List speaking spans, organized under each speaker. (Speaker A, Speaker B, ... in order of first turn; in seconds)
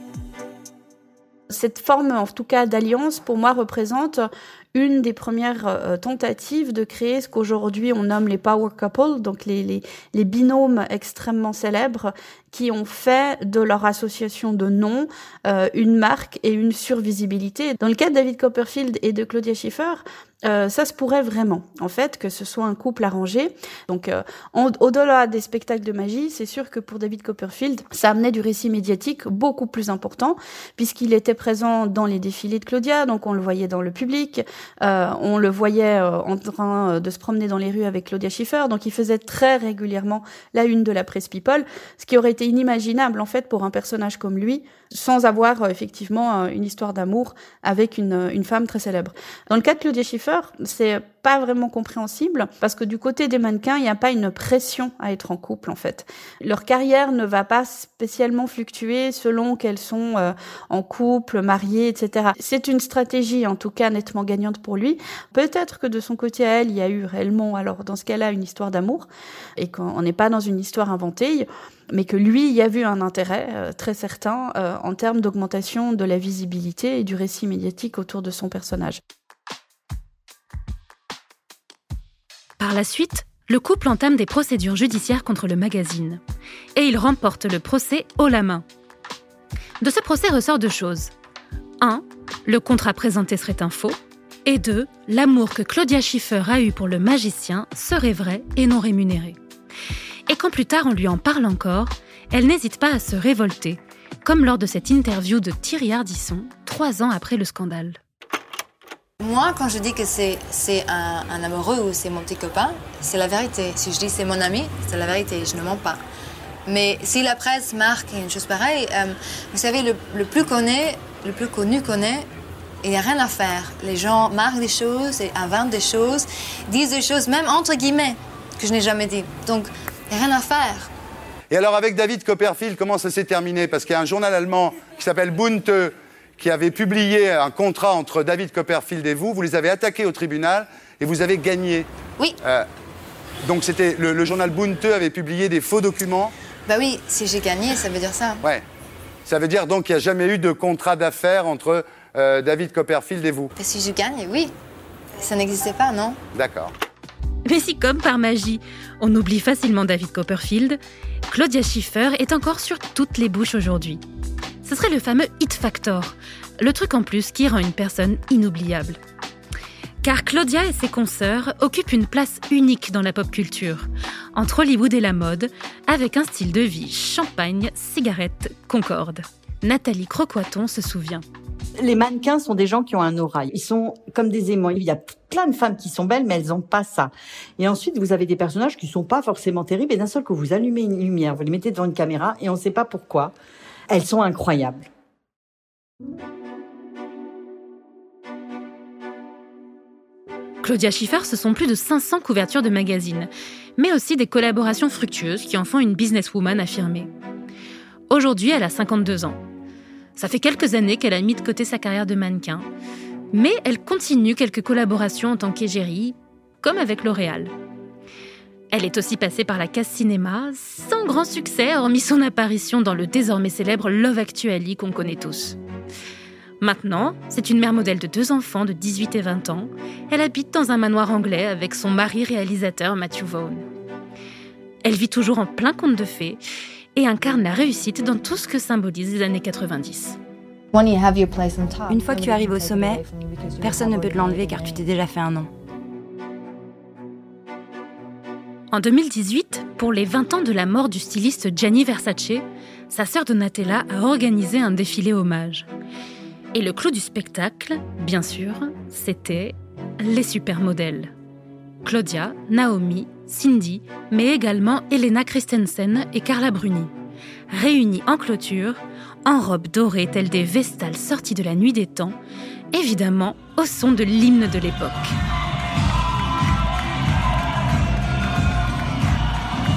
Speaker A: 1.5-69.1, 69.6-79.0
Speaker B: 82.6-86.2, 86.8-88.7, 89.8-91.1, 91.8-99.4, 100.3-108.0, 157.5-164.0, 164.6-169.0, 170.0-181.2, 200.6-207.1, 208.1-209.4, 210.2-212.7, 213.3-217.5, 218.7-225.6, 226.6-233.7, 234.8-236.4, 237.0-240.2, 248.7-255.7, 256.5-261.1, 261.8-266.9, 267.5-272.2, 272.7-275.2
Speaker C: 109.2-116.0, 116.7-122.3, 122.8-130.9, 146.7-148.4, 153.6-154.5, 155.2-156.2, 240.9-241.8
Speaker D: 131.5-141.9, 143.4-146.3, 149.3-153.5, 156.3-156.7
Speaker E: 181.8-193.3, 193.9-194.9
Speaker F: 241.9-245.5